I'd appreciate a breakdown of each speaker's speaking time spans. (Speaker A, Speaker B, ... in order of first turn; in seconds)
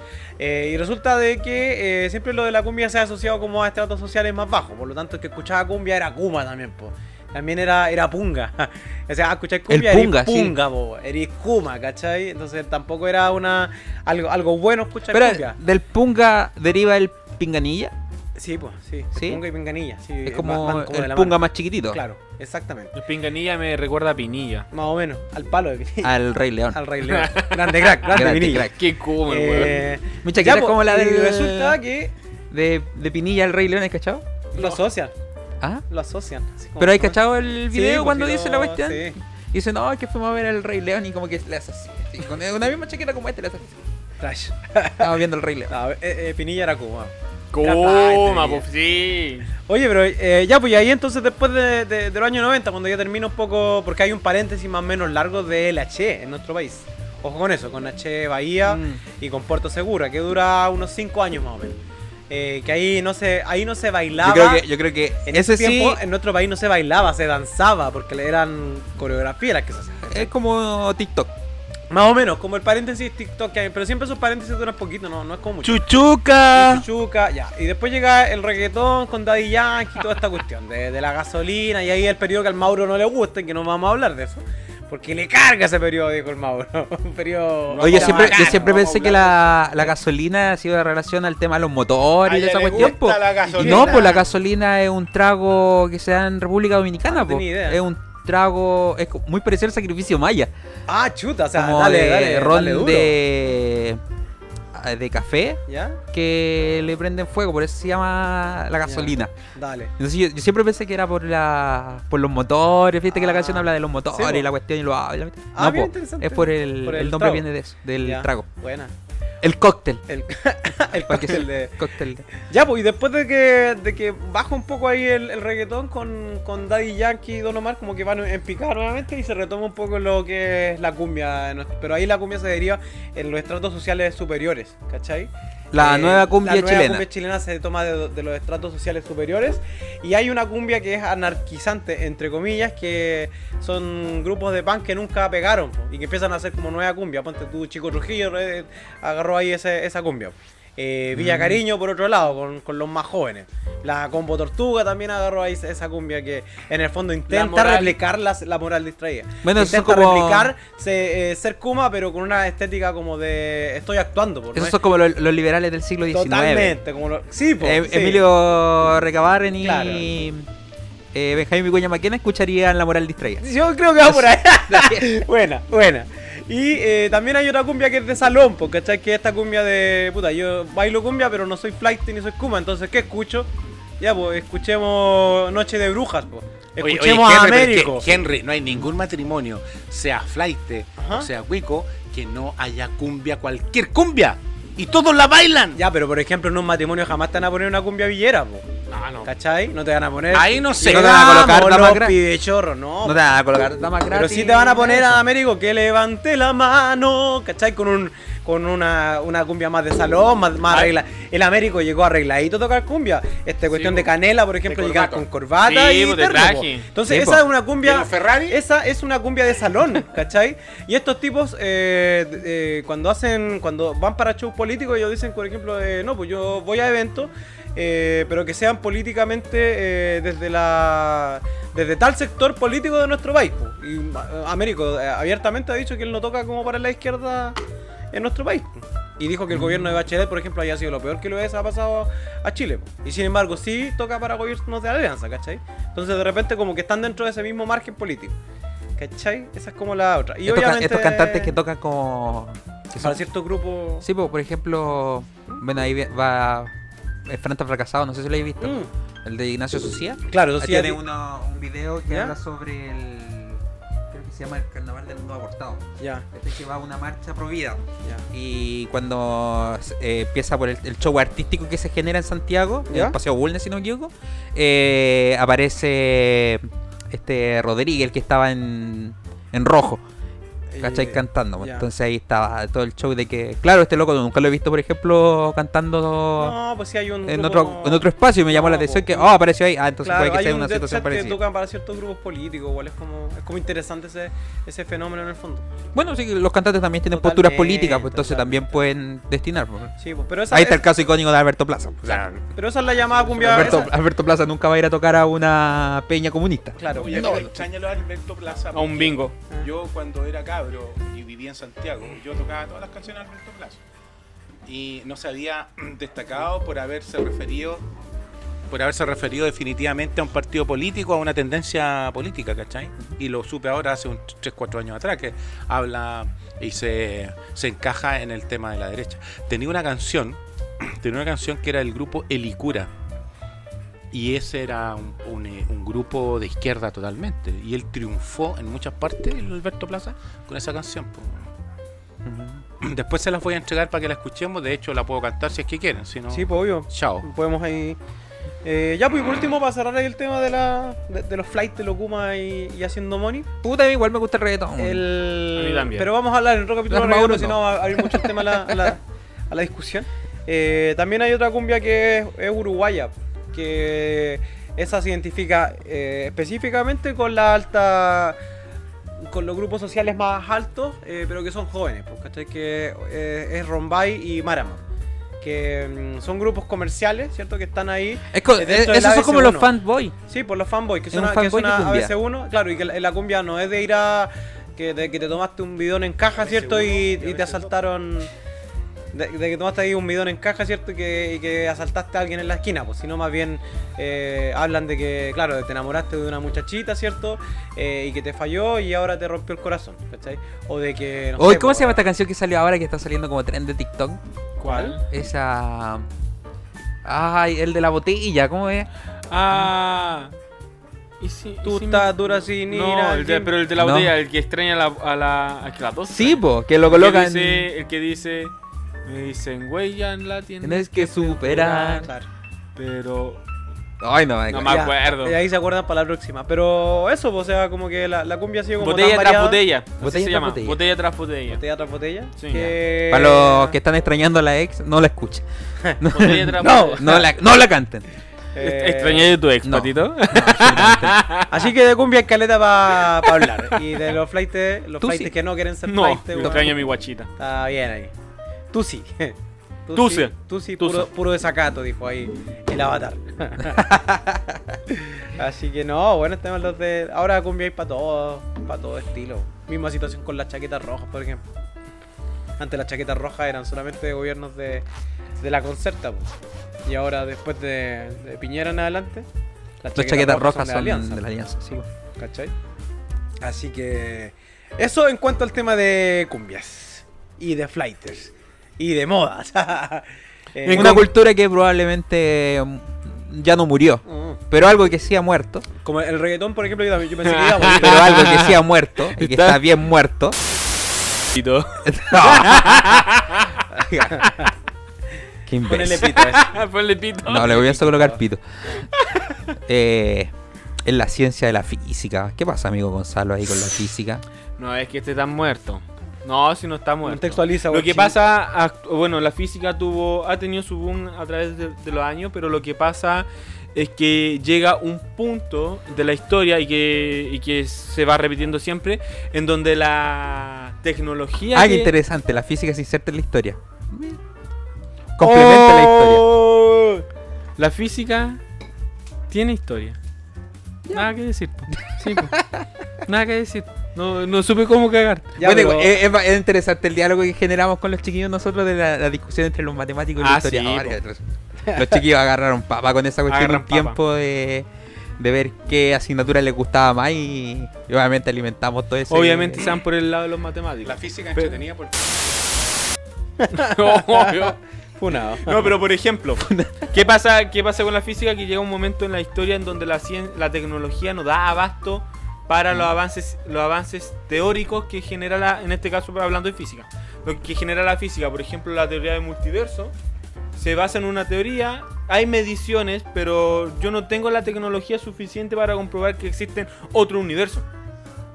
Speaker A: 0.4-15.6, 18.4-22.9, 24.7-26.1, 26.7-28.7, 29.2-32.1, 34.5-35.1, 35.9-39.1, 44.2-45.1, 45.7-48.6, 49.7-61.8, 62.3-64.7, 65.2-70.3, 71.9-75.8, 76.5-88.9, 93.5-94.2, 97.1-97.8, 100.9-103.2, 105.7-106.0, 108.8-109.9, 113.1-114.5, 115.5-117.5, 118.0-118.9, 120.1-121.8, 122.4-164.8, 166.1-168.2, 169.6-170.1, 173.4-188.1, 191.0-191.3, 195.7-198.7, 199.2-203.2, 204.1-237.6, 238.1-248.3, 249.0-251.6, 253.0-254.1, 258.6-258.9, 260.3-261.0, 262.1-262.4, 266.0-266.2, 272.9-273.2, 280.7-281.9, 286.4-289.3, 290.0-295.6, 297.1-298.8, 300.0-300.9, 302.5-303.9, 306.8-307.5, 346.3-348.0, 348.6-353.5, 354.8-368.4, 369.2-374.8, 375.4-379.7, 380.3-388.3, 389.1-402.0, 404.6-404.9, 411.6-413.6, 421.4-422.3, 424.6-429.6, 431.5-433.7, 436.6-437.3, 438.5-439.3, 441.5-446.7, 447.4-448.1, 448.7-453.9, 454.9-461.4, 462.6-464.9, 465.4-466.3, 466.9-469.3, 469.8-471.2, 472.2-472.5, 473.4-481.1, 484.1-484.4, 485.8-488.2, 494.1-494.5, 495.6-496.5, 497.4-498.8, 507.0-508.1, 535.4-535.9, 553.4-555.6
Speaker B: 9.7-10.6, 15.1-17.9, 19.1-19.4, 20.2-22.0, 26.0-26.8, 28.1-28.8, 30.2-31.8, 32.5-34.2, 36.8-43.8, 45.0-45.8, 64.2-66.0, 70.0-71.3, 87.8-100.5, 101.5-104.0, 104.7-105.6, 106.1-109.3, 110.0-118.5, 119.4-120.0, 120.9-122.2, 135.7-137.1, 151.1-151.6, 159.4-160.5, 164.5-166.8, 167.6-170.5, 171.1-173.5, 174.0-175.1, 200.8-202.2, 203.0-205.2, 217.1-217.4, 239.5-240.0, 250.4-253.2, 254.0-256.7, 257.2-280.0, 280.8-286.6, 287.2-291.4, 295.9-299.9, 300.5-302.4, 303.4-307.6, 342.2-342.6, 353.6-355.1, 356.9-358.9, 378.3-380.1, 381.1-382.1, 401.4-404.2, 405.0-406.1, 407.0-408.9, 413.8-414.1, 416.1-417.7, 420.6-422.1, 424.0-424.9, 430.0-430.8, 432.5-435.4, 436.0-438.1, 439.6-441.2, 445.0-445.3, 453.7-454.8, 469.9-471.9, 480.6-485.6, 487.6-490.4, 491.9-493.0, 493.8-494.2, 495.5-496.2, 497.2-498.4, 499.7-500.3, 500.8-504.2, 521.5-524.2, 525.2-526.3, 531.9-532.7, 535.4-544.7, 545.2-549.7, 556.5-556.8
Speaker C: 22.9-24.7, 27.0-27.8, 28.7-29.8, 47.5-49.5, 157.3-157.9, 198.9-199.3, 215.6-216.9, 308.7-309.3, 355.5-356.1, 404.6-405.0, 409.3-410.3, 411.2-418.5, 419.1-421.6, 422.8-423.4, 424.5-425.4, 428.8-431.6, 432.4-432.7, 436.1-437.1, 438.6-441.5, 443.2-443.8, 445.9-447.3, 449.9-451.1, 480.6-481.1, 487.2-488.6, 489.1-489.6, 491.3-493.6, 496.0-497.6, 498.9-499.3, 504.6-521.9, 525.2-527.0, 527.6-528.4, 529.3-530.0, 530.9-532.3, 533.0-535.4, 540.2-541.0, 543.3-544.0, 549.1-551.6, 553.5-554.6, 555.4-569.9, 570.5-577.6
Speaker D: 75.7-76.5, 87.7-89.6, 92.2-94.2, 186.8-195.8, 200.3-201.4, 213.7-215.3, 217.8-218.6, 306.9-313.8, 314.7-317.9, 318.7-332.9, 334.1-341.4, 342.8-347.2, 386.3-387.7, 550.8-552.2